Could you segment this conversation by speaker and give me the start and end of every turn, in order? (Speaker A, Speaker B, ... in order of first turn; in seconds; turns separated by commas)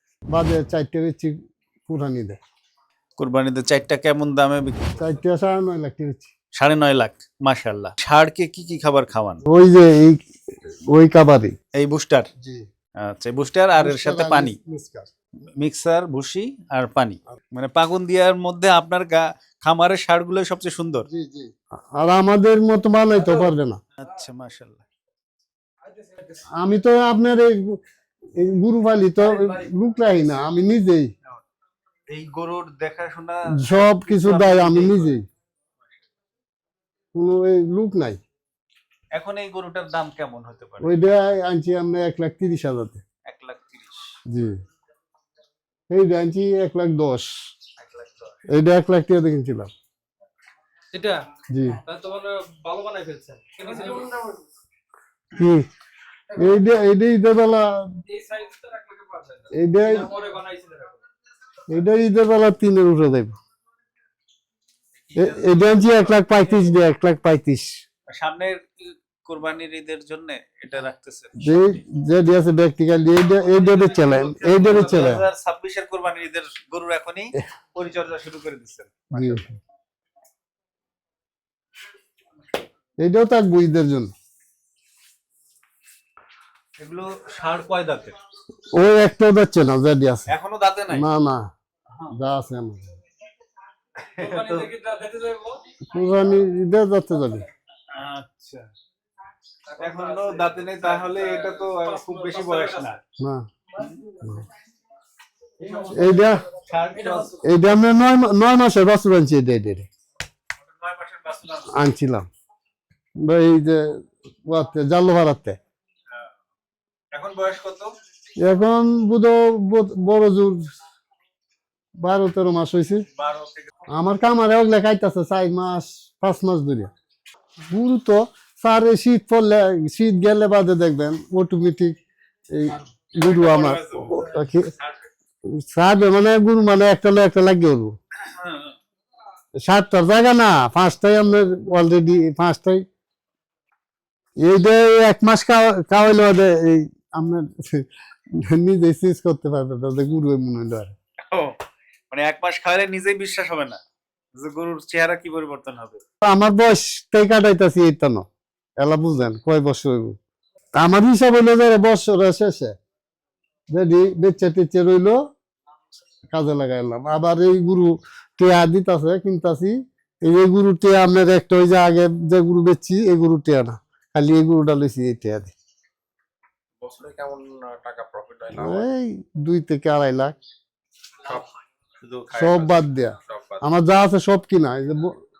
Speaker A: 0.3-2.4, Speaker B: 3.2-5.1, Speaker A: 5.0-6.3, Speaker B: 6.6-9.4, Speaker A: 9.4-10.2, Speaker A: 10.9-11.5, Speaker B: 11.8-12.3, Speaker A: 12.4-12.6, Speaker B: 13.0-14.6, Speaker A: 13.8-15.1, Speaker B: 15.6-21.1, Speaker A: 21.1-23.8, Speaker B: 24.0-24.8, Speaker C: 25.9-26.4, Speaker A: 26.6-27.8, Speaker A: 28.3-31.1, Speaker B: 32.1-35.2, Speaker A: 33.6-35.2, Speaker A: 37.1-38.2, Speaker B: 39.1-41.0, Speaker A: 40.8-43.0, Speaker B: 43.2-44.2, Speaker A: 44.3-44.6, Speaker A: 45.9-47.3, Speaker B: 47.8-48.4, Speaker A: 48.5-49.7, Speaker C: 50.9-51.2, Speaker A: 51.5-51.8, Speaker C: 51.8-54.2, Speaker A: 55.3-55.7, Speaker A: 56.3-58.0, Speaker C: 58.1-61.0, Speaker A: 59.5-60.1, Speaker A: 61.7-63.4, Speaker B: 65.1-66.2, Speaker A: 65.1-67.8, Speaker B: 68.1-71.5, Speaker A: 71.4-75.2, Speaker B: 73.3-79.4, Speaker A: 79.1-79.6, Speaker A: 83.0-84.1, Speaker B: 86.8-88.2, Speaker A: 88.7-90.3, Speaker B: 90.3-91.0, Speaker A: 90.9-91.4, Speaker A: 92.1-92.9, Speaker B: 94.0-94.7, Speaker C: 94.2-95.6, Speaker A: 95.9-97.5, Speaker B: 97.9-98.7, Speaker C: 99.7-102.8, Speaker B: 99.8-103.0, Speaker A: 103.2-103.4, Speaker B: 103.8-104.0, Speaker C: 105.6-106.2, Speaker A: 105.8-106.4, Speaker B: 106.5-107.4, Speaker C: 106.9-107.4, Speaker A: 107.4-109.9, Speaker B: 110.7-111.7, Speaker A: 111.7-112.3, Speaker A: 113.2-113.9, Speaker A: 114.5-115.6, Speaker B: 117.1-117.9, Speaker A: 118.4-120.6, Speaker A: 122.0-123.0, Speaker B: 123.2-123.7, Speaker A: 123.9-126.9, Speaker A: 127.7-131.9, Speaker A: 132.5-134.7, Speaker B: 133.2-135.1, Speaker A: 135.6-137.9, Speaker B: 138.2-138.7, Speaker A: 139.6-142.8, Speaker A: 144.4-147.8, Speaker A: 148.4-150.9, Speaker B: 151.3-151.6, Speaker B: 152.1-153.8, Speaker B: 154.4-156.0, Speaker A: 156.2-158.2, Speaker A: 158.8-160.1, Speaker A: 160.8-162.7, Speaker A: 163.7-165.2, Speaker A: 166.3-175.5, Speaker D: 176.8-178.8, Speaker A: 178.5-180.4, Speaker D: 182.0-183.6, Speaker A: 182.3-185.1